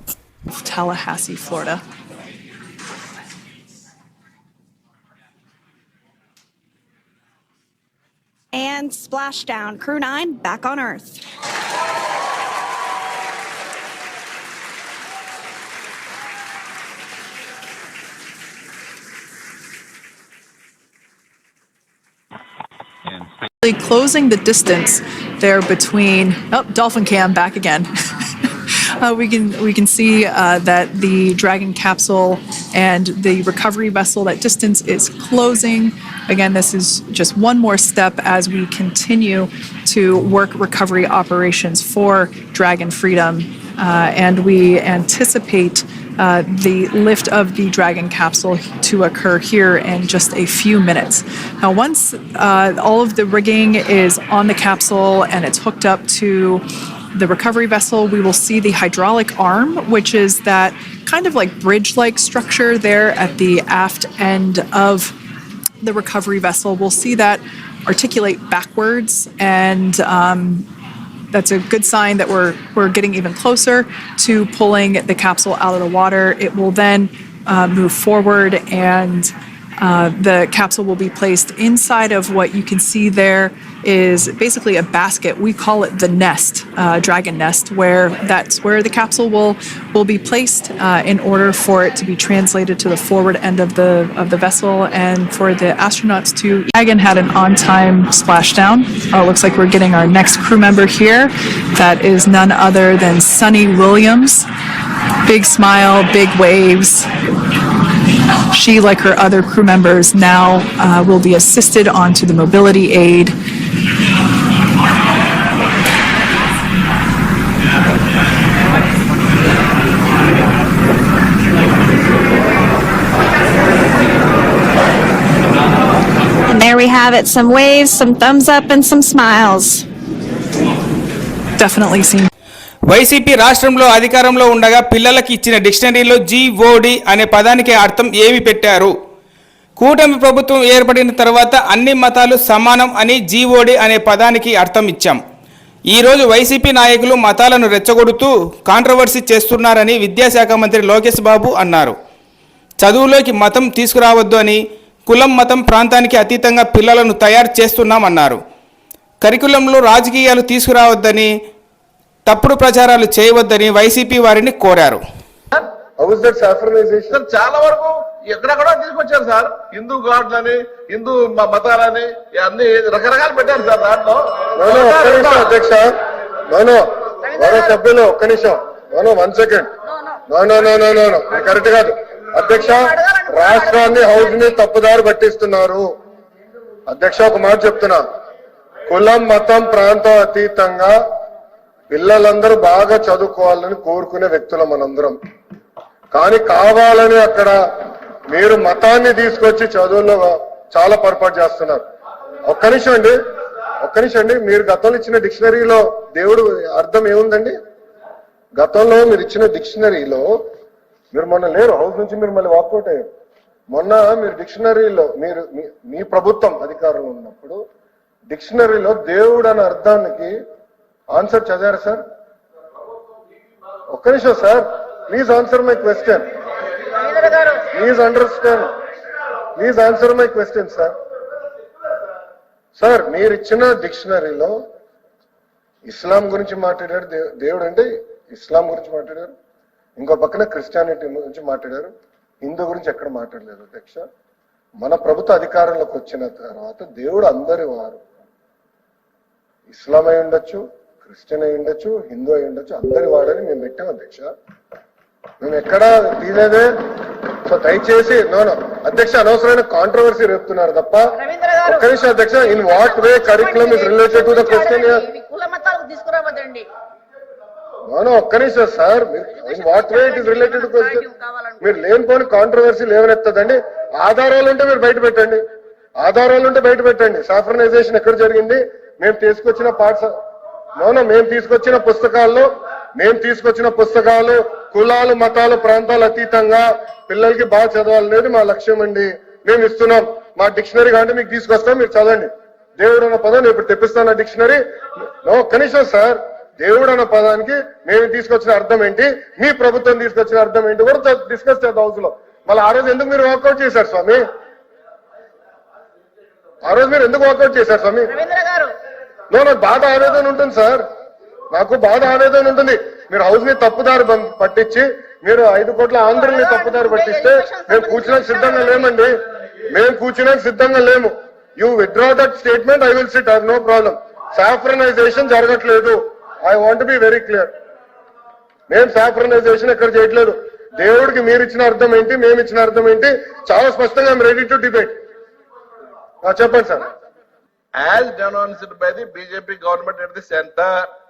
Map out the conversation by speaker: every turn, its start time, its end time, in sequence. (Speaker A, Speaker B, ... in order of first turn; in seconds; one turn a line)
Speaker A: 0.5-1.8
Speaker B: 8.5-11.2
Speaker A: 23.6-27.9
Speaker A: 29.0-65.1
Speaker A: 65.8-70.7
Speaker A: 71.3-104.5
Speaker A: 105.2-107.1
Speaker A: 108.5-113.3
Speaker B: 126.5-129.8
Speaker A: 131.6-132.3
Speaker C: 132.9-138.9
Speaker C: 139.8-145.2
Speaker C: 145.9-151.9
Speaker C: 152.8-158.4
Speaker C: 159.2-161.3
Speaker C: 162.2-165.0
Speaker D: 166.0-167.2
Speaker E: 167.1-175.6
Speaker D: 174.6-175.9
Speaker D: 176.5-179.7
Speaker F: 177.3-177.8
Speaker D: 180.3-185.8
Speaker F: 182.5-184.6
Speaker D: 186.9-188.0
Speaker D: 188.9-190.9
Speaker D: 191.9-195.2
Speaker D: 196.1-197.6
Speaker D: 198.3-201.8
Speaker D: 202.4-203.1
Speaker D: 203.8-207.6
Speaker D: 208.6-210.2
Speaker D: 211.1-213.1
Speaker D: 213.7-217.6
Speaker D: 218.3-220.3
Speaker D: 221.1-222.0
Speaker D: 223.9-226.2
Speaker F: 227.1-227.6
Speaker D: 227.6-228.7
Speaker D: 229.6-230.9
Speaker D: 232.8-234.5
Speaker D: 235.8-239.3
Speaker D: 240.0-244.0
Speaker D: 244.8-248.0
Speaker D: 249.7-254.3
Speaker D: 255.4-256.7
Speaker D: 257.4-265.1
Speaker F: 261.2-261.9
Speaker F: 262.4-266.6
Speaker D: 267.9-275.4
Speaker F: 269.4-271.6
Speaker D: 276.0-280.1
Speaker D: 280.8-294.6
Speaker D: 295.2-304.2
Speaker D: 306.6-308.2
Speaker F: 308.1-308.7
Speaker D: 309.3-310.8
Speaker D: 311.5-319.1
Speaker F: 316.1-318.9
Speaker D: 319.7-327.5
Speaker D: 328.7-334.9
Speaker D: 336.2-336.9
Speaker E: 337.7-340.9